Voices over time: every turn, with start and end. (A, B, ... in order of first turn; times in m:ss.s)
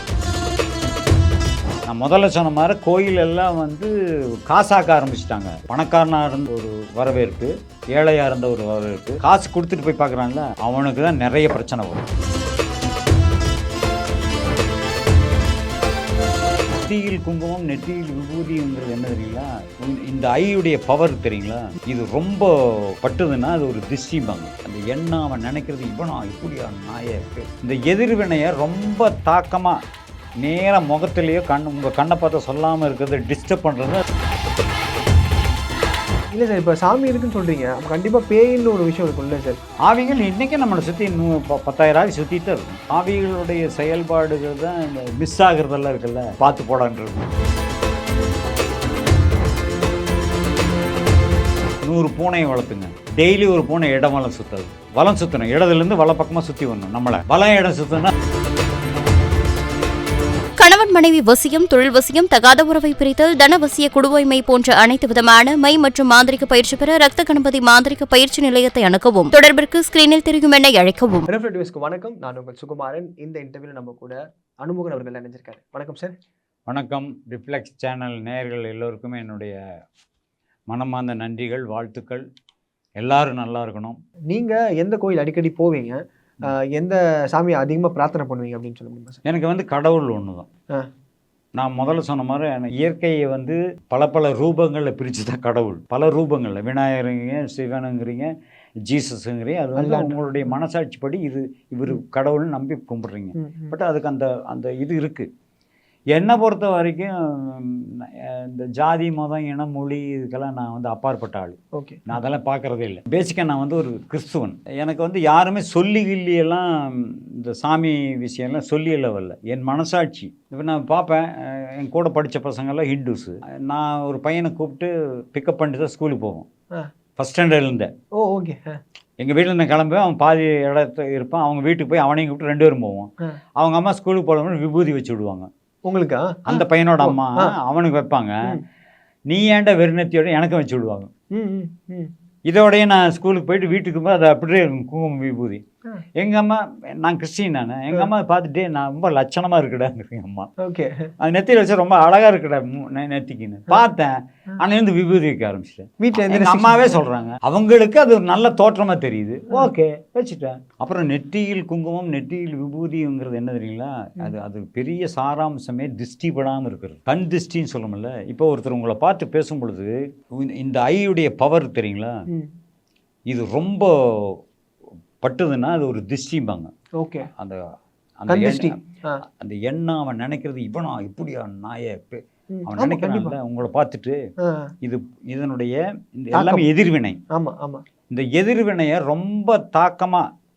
0:01.8-0:03.9 A
0:04.4-0:12.0 A
0:16.8-0:29.8 A
0:30.4-0:34.0 A
0:36.3-0:39.6 B
0:39.8-0:47.3 A
0:51.8-0:58.1 A
1:00.6-1:11.3 C
1:11.3-1:16.1 B
1:16.7-1:19.6 A
1:20.7-1:22.2 A
1:23.0-1:24.0 A
1:24.3-1:29.2 B
1:29.2-1:30.5 A
1:31.6-1:38.3 A
1:38.9-1:45.3 A
1:39.8-1:40.5 B
1:43.3-1:43.8 B
1:46.1-1:51.6 A
1:51.7-1:52.1 B
1:52.1-2:06.5 A
2:07.2-2:07.9 A
2:08.2-2:08.8 B
2:09.2-2:15.5 A
2:15.9-2:17.5 B
2:16.5-2:18.5 A
2:19.3-2:21.1 A
2:21.3-2:22.1 B
2:22.5-2:25.6 A
2:26.2-2:30.5 A
2:30.6-2:31.1 B
2:31.2-2:52.2 A
2:36.0-2:37.0 B
2:53.3-2:54.4 A
2:55.2-2:56.7 A
2:57.0-2:57.3 B
2:58.2-2:58.7 A
2:58.3-2:59.2 B
2:59.4-3:04.2 A
3:02.5-3:03.4 B
3:04.4-3:04.7 B
3:04.8-3:07.2 A
3:06.3-3:06.6 B
3:07.3-3:07.8 B
3:08.1-3:10.2 A